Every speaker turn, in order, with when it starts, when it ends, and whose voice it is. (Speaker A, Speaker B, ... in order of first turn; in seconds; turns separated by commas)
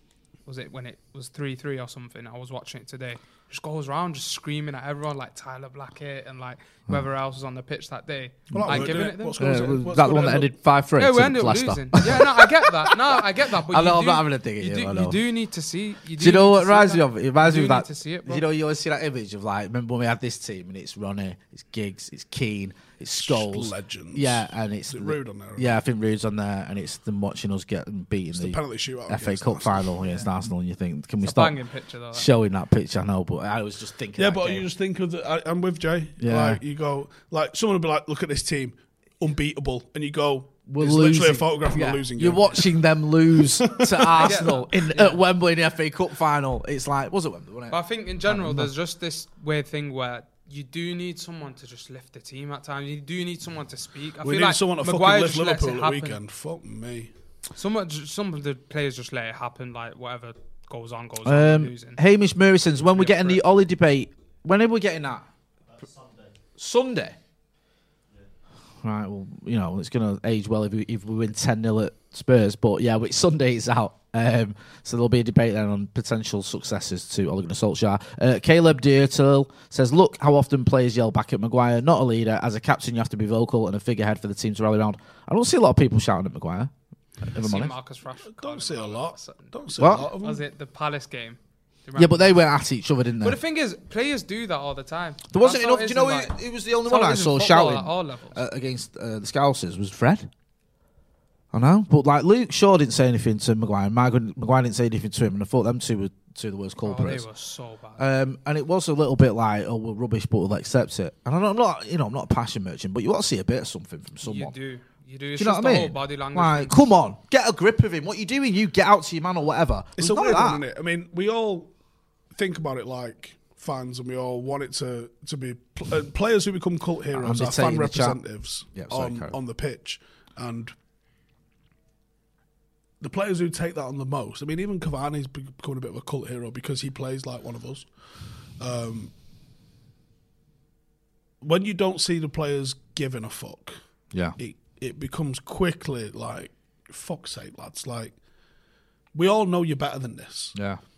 Speaker A: 0.5-9.5, Speaker B: 8.5-15.2, Speaker C: 8.5-10.5, Speaker A: 11.0-18.4, Speaker B: 16.2-31.6, Speaker C: 23.2-25.8, Speaker C: 28.3-29.9, Speaker A: 31.2-32.3, Speaker B: 32.1-34.7, Speaker C: 34.2-42.7, Speaker B: 36.2-36.6, Speaker B: 40.7-48.7, Speaker C: 43.5-44.5, Speaker A: 44.2-45.2, Speaker A: 47.7-56.2, Speaker C: 54.2-57.1, Speaker A: 57.5-62.0, Speaker B: 61.2-65.3, Speaker A: 62.9-63.4, Speaker B: 66.5-67.2, Speaker B: 68.8-87.7, Speaker A: 87.3-92.4, Speaker C: 88.3-90.4, Speaker B: 89.8-90.1, Speaker B: 92.0-93.4, Speaker A: 93.2-98.4, Speaker B: 95.3-100.3, Speaker B: 101.5-107.2, Speaker A: 106.8-108.0, Speaker B: 108.0-114.5, Speaker A: 114.2-116.8, Speaker B: 115.4-120.6, Speaker C: 120.0-121.7, Speaker C: 122.3-130.7, Speaker B: 127.1-128.2, Speaker B: 128.7-129.4, Speaker C: 133.0-137.9, Speaker C: 138.6-139.1, Speaker C: 141.4-143.8, Speaker B: 144.1-144.4, Speaker C: 144.4-148.1, Speaker C: 149.1-150.5, Speaker B: 150.5-150.8